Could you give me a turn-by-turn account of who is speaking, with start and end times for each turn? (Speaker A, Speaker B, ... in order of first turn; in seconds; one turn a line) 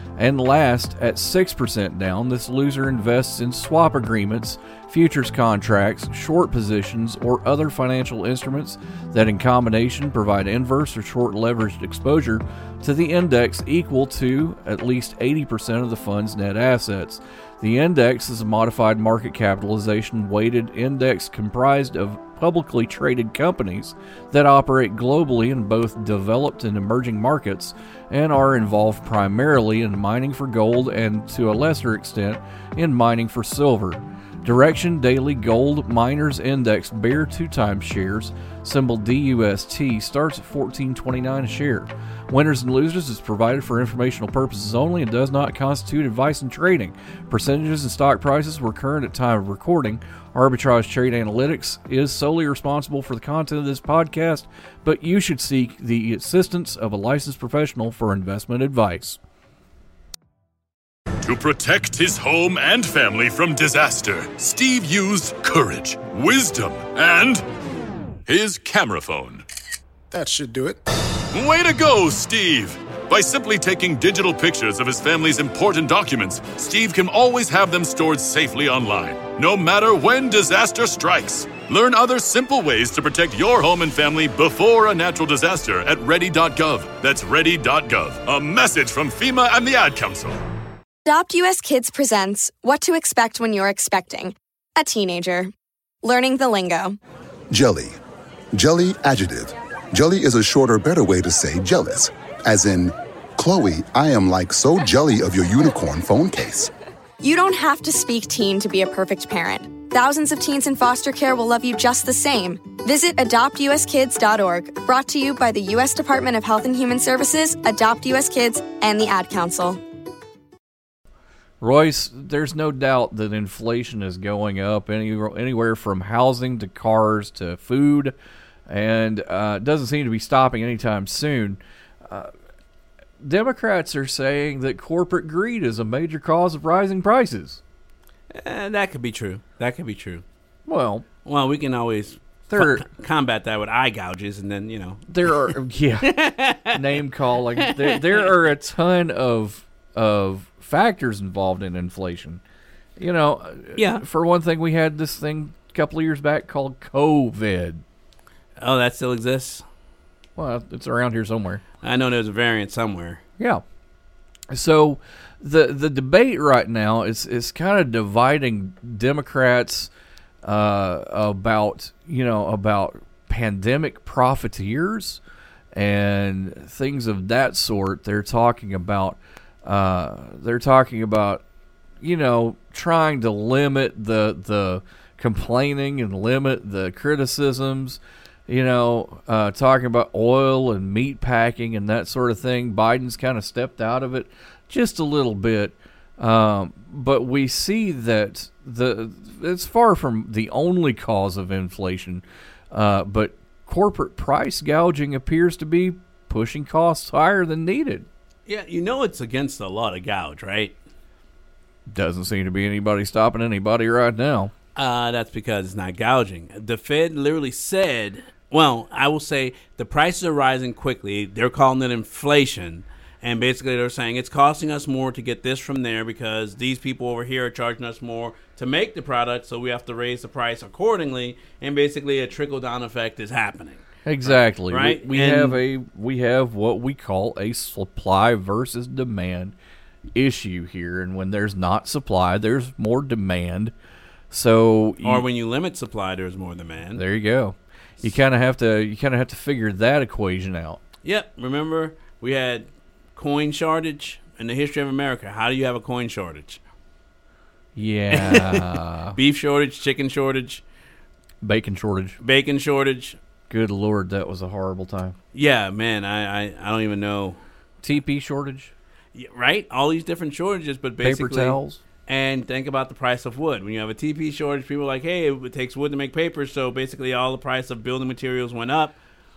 Speaker A: 0.2-59.2
Speaker B: 61.2-67.4
Speaker B: 68.3-69.4
Speaker C: 70.1-70.8
Speaker B: 71.3-90.4
Speaker D: 91.0-97.0
Speaker C: 97.5-98.0
Speaker C: 98.5-106.7
Speaker D: 107.2-119.8
Speaker A: 121.6-128.1
Speaker A: 128.7-132.3
Speaker A: 133.2-137.6
Speaker E: 138.3-140.2
Speaker A: 140.7-141.0
Speaker E: 141.2-145.5
Speaker A: 142.5-142.9
Speaker A: 145.1-146.1
Speaker E: 146.0-146.8
Speaker A: 146.7-152.4
Speaker E: 147.6-148.3
Speaker A: 153.0-157.8
Speaker E: 153.8-154.0
Speaker E: 158.6-159.6
Speaker A: 160.4-161.6
Speaker E: 161.8-163.2
Speaker A: 164.5-169.9
Speaker A: 170.4-175.2
Speaker A: 175.7-181.4
Speaker A: 182.0-208.1
Speaker E: 208.4-210.8
Speaker A: 211.9-214.5
Speaker E: 214.7-235.6
Speaker A: 234.1-239.5
Speaker A: 240.1-243.7
Speaker A: 244.3-245.2
Speaker E: 245.0-247.0
Speaker A: 246.9-250.8
Speaker E: 251.0-256.6
Speaker A: 257.8-259.1
Speaker E: 258.1-260.6
Speaker A: 261.4-262.2
Speaker E: 262.2-263.2
Speaker A: 263.5-265.2
Speaker E: 265.3-267.4
Speaker A: 267.8-268.7
Speaker E: 269.1-278.9
Speaker A: 271.0-271.8